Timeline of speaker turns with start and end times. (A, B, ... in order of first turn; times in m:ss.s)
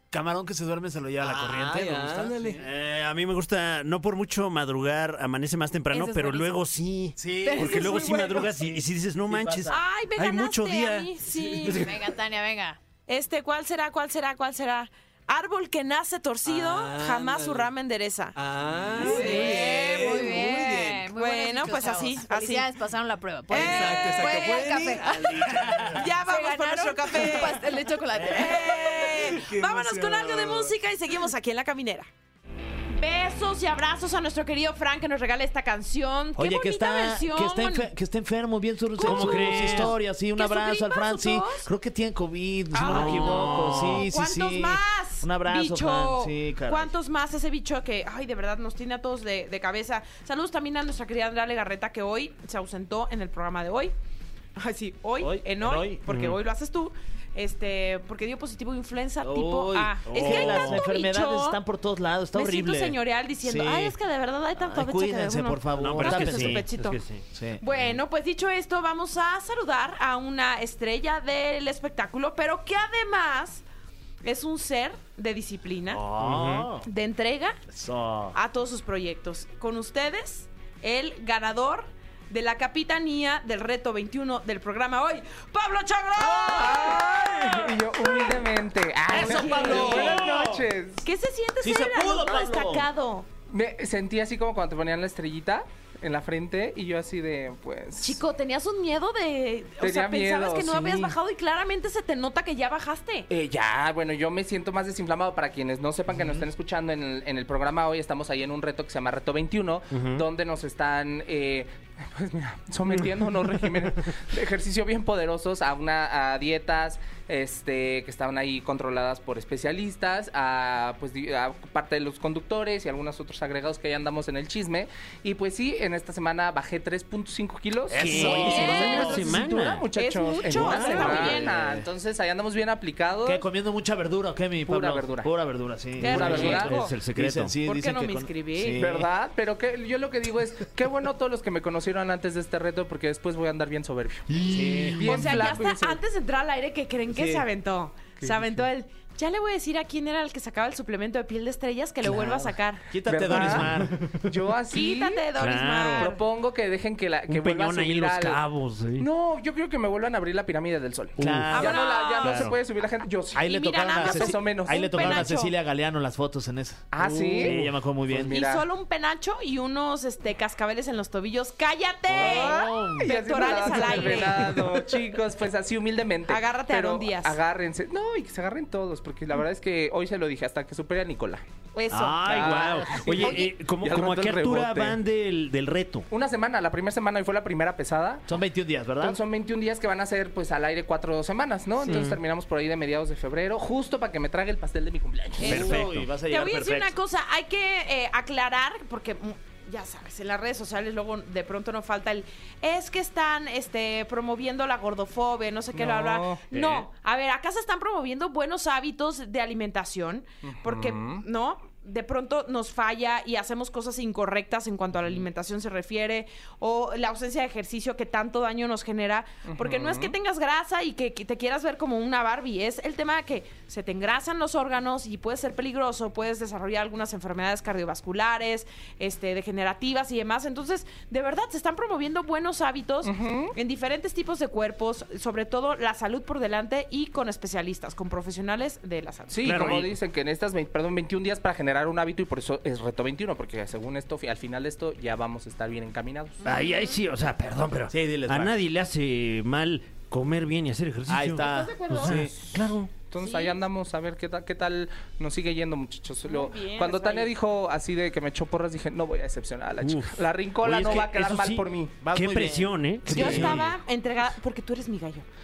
0:00.1-0:02.9 A
0:01.2-0:02.6 B
0:02.6-0:11.1 C
0:05.9-0:06.6 D
0:07.2-0:08.7 A
0:07.4-0:08.4 D
0:09.3-0:09.8 A
0:09.7-0:11.9 E
0:11.4-0:11.8 B
0:11.7-0:12.8 D
0:13.1-0:18.4 E
0:16.4-0:17.7 B
0:18.4-0:21.1 B
0:19.0-0:20.3 E
0:19.0-0:25.5 D
0:21.1-0:22.7 E
0:23.5-0:24.7 E
0:23.5-0:26.1 B
0:25.7-0:25.9 A
0:25.9-0:27.7 E
0:26.2-0:29.1 D
0:28.2-0:32.1 E
0:29.1-0:30.8 B
0:33.0-0:37.9 E
0:36.4-0:46.9 A
0:39.0-0:41.7 E
0:39.0-0:40.0 C
0:42.7-0:53.9 E
0:42.8-0:44.1 C
0:54.6-1:01.6 E
0:55.2-0:56.0 A
0:56.1-0:56.4 C
0:59.2-1:04.0 A
1:00.1-1:00.9 C
1:02.3-1:07.0 E
1:04.6-1:06.7 A
1:05.8-1:07.9 C
1:07.3-1:07.6 A
1:07.6-1:13.6 E
1:14.2-1:16.0 E
1:15.9-1:16.9 A
1:16.2-1:16.7 C
1:16.8-1:17.6 E
1:17.7-1:18.4 A
1:18.3-1:28.4 E
1:26.2-1:31.1 F
1:29.1-1:30.3 E
1:29.1-1:30.6 A
1:31.0-1:33.3 E
1:31.6-1:32.9 A
1:33.5-1:38.2 F
1:38.0-1:43.3 E
1:39.8-1:41.2 F
1:43.3-2:13.4 F
1:49.9-1:50.2 C
2:07.9-2:09.9 C
2:07.9-2:09.2 A
2:08.2-2:09.3 E
2:09.9-2:11.5 E
2:10.5-2:11.4 C
2:10.6-2:11.8 A
2:13.2-2:19.1 A
2:14.6-2:15.3 F
2:16.0-2:16.9 E
2:16.0-2:16.9 F
2:16.0-2:17.6 C
2:17.6-2:18.8 E
2:18.8-2:26.0 F
2:24.5-2:25.5 A
2:24.6-2:25.0 C
2:25.0-2:32.9 E
2:28.2-2:28.6 F
2:32.0-2:34.0 A
2:33.0-2:35.3 F
2:33.3-2:34.2 C
2:34.7-2:36.2 E
2:35.4-2:36.1 C
2:35.9-2:38.4 F
2:37.3-2:39.1 C
2:39.0-2:45.4 F
2:41.2-2:42.6 C
2:41.2-2:41.8 A
2:41.5-2:42.5 E
2:43.4-2:48.4 A
2:43.4-2:45.5 E
2:46.9-2:48.7 F
2:47.0-2:48.2 C
2:48.3-2:54.6 E
2:52.1-2:53.1 A
2:52.1-3:01.4 F
2:53.7-2:54.2 A
2:56.3-2:57.4 E
3:01.8-3:02.6 E
3:01.9-3:06.1 C
3:02.2-3:05.0 F
3:06.1-3:08.3 F
3:08.3-3:09.2 A
3:09.0-3:15.8 F
3:11.9-3:12.2 C
3:15.4-3:16.1 C
3:15.4-3:17.0 A
3:15.4-3:59.5 E
3:25.7-3:26.5 F
3:26.5-3:26.9 C
3:30.4-3:31.2 F
3:39.4-3:40.2 F
3:53.0-3:53.6 F
3:59.3-4:06.4 F
3:59.4-4:00.0 C
4:06.4-4:12.9 C
4:06.6-4:06.9 E
4:07.9-4:08.6 A
4:11.1-4:12.3 A
4:11.8-4:12.3 F
4:12.9-4:22.0 F
4:13.2-4:13.6 E
4:16.2-4:17.3 E
4:19.8-4:23.7 C
4:22.0-4:23.7 A
4:23.1-4:25.3 E